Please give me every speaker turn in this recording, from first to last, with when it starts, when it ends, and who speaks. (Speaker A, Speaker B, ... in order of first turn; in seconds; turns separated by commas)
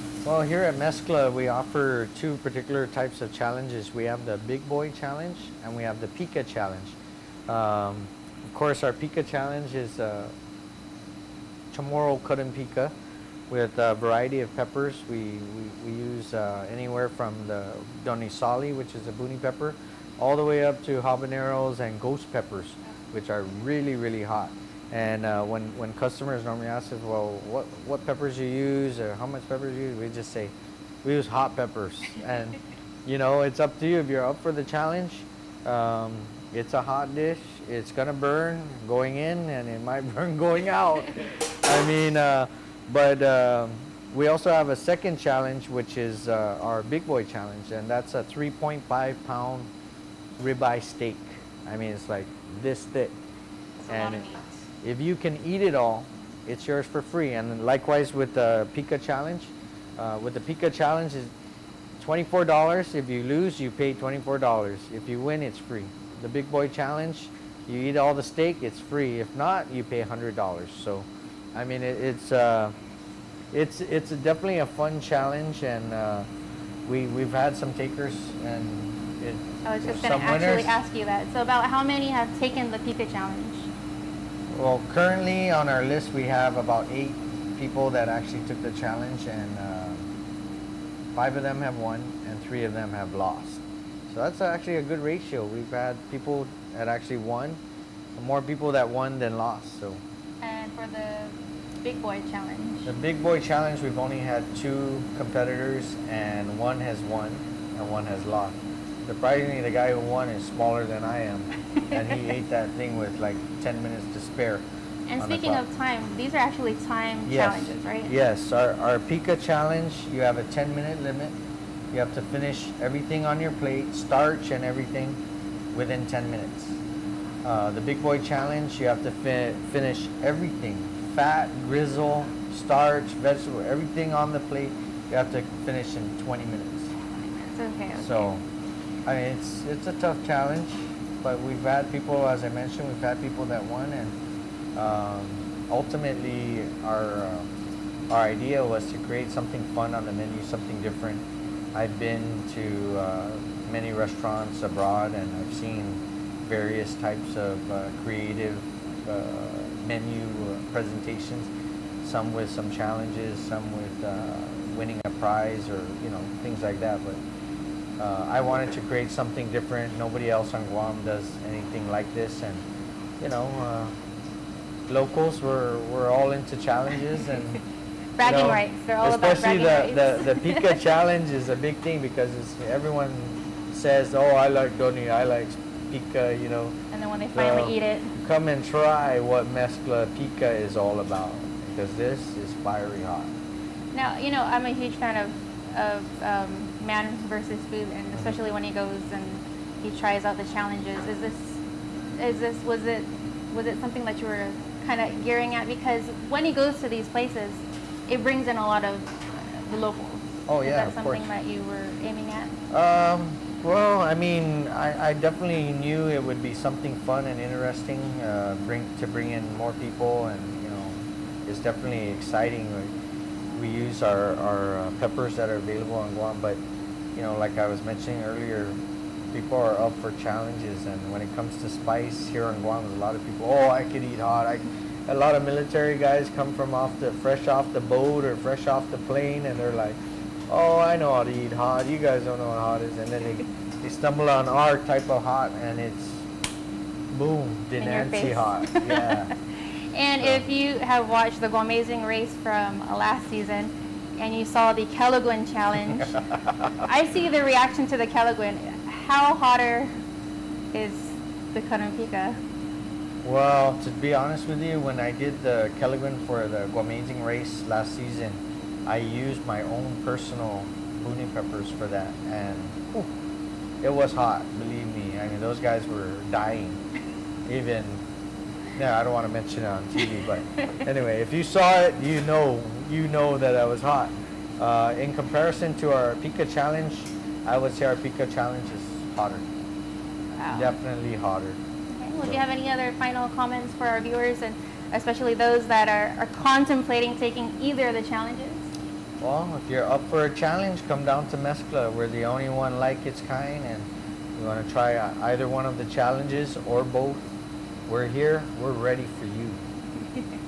Speaker A: 0.2-7.0, Speaker A: 7.5-10.3, Speaker A: 11.7-12.9, Speaker A: 13.5-30.5, Speaker A: 31.0-49.7, Speaker A: 50.4-53.1, Speaker B: 53.8-54.5, Speaker A: 53.9-54.3, Speaker A: 54.8-61.3, Speaker A: 62.0-72.7, Speaker A: 73.5-76.3, Speaker A: 76.8-80.7, Speaker B: 79.6-83.7, Speaker A: 84.5-90.0, Speaker A: 91.1-97.6, Speaker A: 98.2-100.0, Speaker B: 100.4-102.9, Speaker A: 102.8-114.6, Speaker B: 115.1-118.1, Speaker A: 115.2-115.6, Speaker A: 117.2-121.3, Speaker A: 121.9-125.2, Speaker A: 125.7-126.8, Speaker A: 127.4-136.9, Speaker B: 137.4-138.3, Speaker A: 138.0-138.4, Speaker A: 139.1-144.2, Speaker A: 144.8-147.4, Speaker A: 148.1-151.2, Speaker A: 151.7-161.5, Speaker A: 162.0-167.2, Speaker A: 168.0-172.6, Speaker A: 173.2-173.9, Speaker A: 174.9-177.6, Speaker B: 178.2-180.7, Speaker A: 178.2-186.7, Speaker B: 186.9-188.1, Speaker A: 187.3-193.3, Speaker B: 193.9-201.6, Speaker B: 202.2-212.5, Speaker A: 210.5-211.3, Speaker A: 212.7-222.9, Speaker A: 223.5-226.6, Speaker A: 227.1-228.8, Speaker A: 229.3-240.0, Speaker A: 240.5-246.2, Speaker A: 247.1-249.3, Speaker B: 247.8-249.3, Speaker B: 249.9-256.2, Speaker A: 250.2-250.4, Speaker A: 256.1-256.8, Speaker B: 256.8-259.9, Speaker B: 260.7-262.4, Speaker A: 263.2-273.1, Speaker A: 273.8-276.8, Speaker A: 277.5-278.0, Speaker A: 278.8-289.4, Speaker B: 290.4-290.7, Speaker A: 290.5-291.6, Speaker B: 291.9-298.7, Speaker A: 299.2-307.2, Speaker A: 307.9-309.6